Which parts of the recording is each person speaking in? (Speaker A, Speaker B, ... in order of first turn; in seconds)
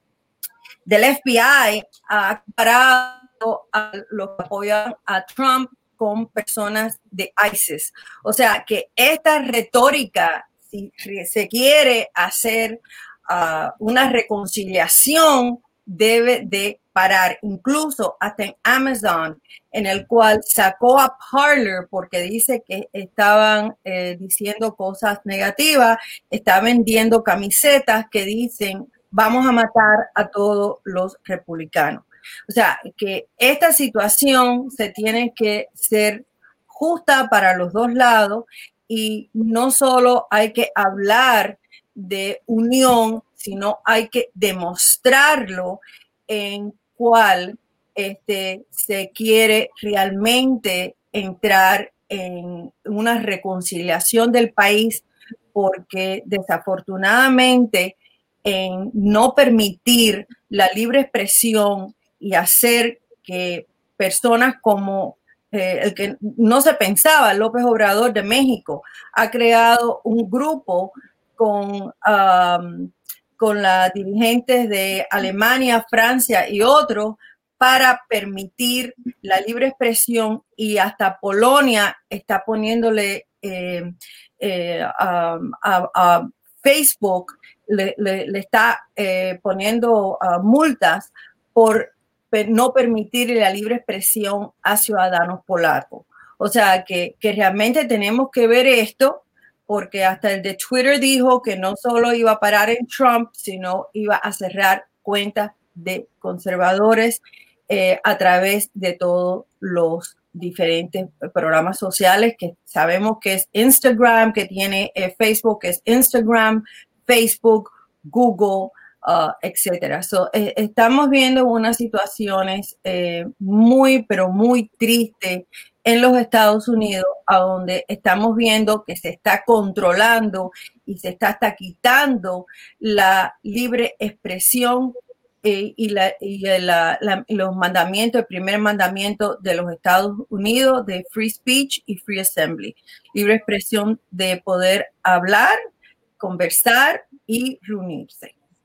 Speaker A: 0.8-145.6, 146.2-148.3